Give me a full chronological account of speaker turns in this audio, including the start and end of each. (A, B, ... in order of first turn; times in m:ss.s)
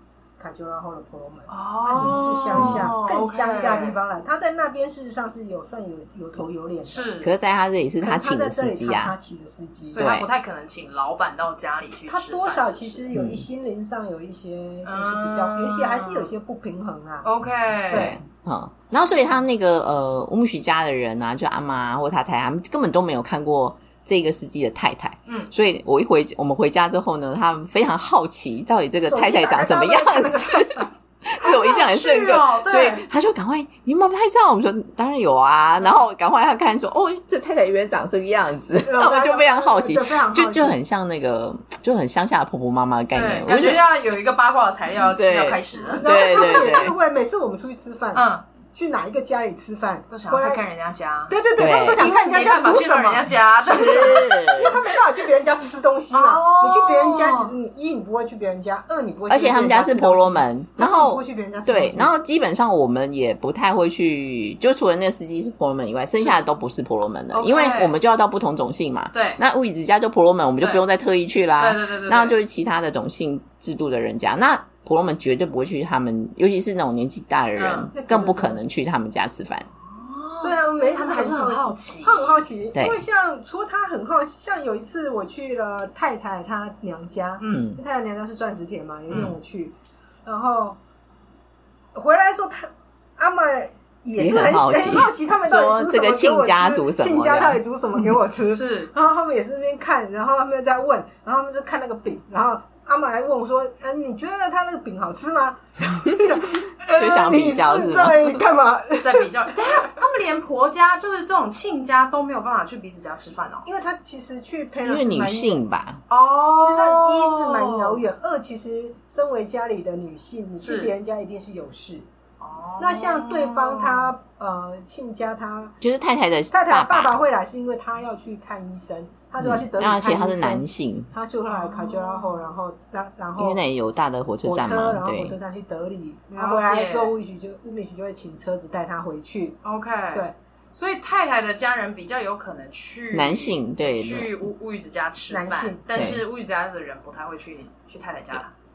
0:00.4-0:07.1 A
0:01.5-0:04.0 B
0:02.5-0:02.9 C
0:06.9-0:07.3 B
0:07.2-0:09.2 C
0:08.0-0:10.2 A
0:09.9-0:13.1 B
0:10.0-0:10.3 C
0:12.1-0:17.3 A
0:13.1-0:13.4 C
0:14.8-0:16.3 B
0:17.2-0:18.1 B
0:17.9-0:18.2 A
0:17.9-0:44.0 C
0:25.3-0:25.5 B
0:29.0-0:30.9 A
0:31.4-0:33.1 B
0:38.8-0:40.8 A
0:43.1-0:46.6 B
0:45.0-0:47.0 C
0:45.9-0:50.6 A
0:48.1-0:48.4 B
0:50.1-0:51.4 B
0:51.3-1:02.1 A
0:51.6-0:52.1 C
0:51.9-0:54.6 B
0:53.6-0:54.8 C
0:56.1-0:57.5 B
0:59.3-1:19.7 C
1:07.3-1:07.9 B
1:09.1-1:09.4 B
1:11.6-1:12.4 B
1:17.6-1:17.9 B
1:17.9-1:18.6 A
1:19.8-1:22.4 B
1:20.4-1:29.7 A
1:22.8-1:23.0 C
1:27.4-1:27.7 B
1:27.5-1:27.8 C
1:30.2-1:30.8 A
1:32.0-1:49.5 A
1:34.2-1:37.6 C
1:38.5-1:38.9 B
1:47.0-1:48.4 C
1:49.0-1:53.7 B
1:53.7-1:55.6 A
1:54.8-1:56.0 C
1:56.1-1:58.0 B
1:56.6-2:02.1 A
2:00.6-2:00.9 B
2:02.4-2:04.1 B
2:02.8-2:05.8 A
2:05.8-2:07.2 C
2:06.5-2:13.6 A
2:09.4-2:11.1 C
2:11.5-2:12.5 B
2:13.4-2:15.4 C
2:14.4-2:19.6 A
2:16.3-2:17.2 B
2:19.6-2:28.5 B
2:23.1-2:24.4 C
2:25.3-2:25.8 A
2:26.0-2:26.2 C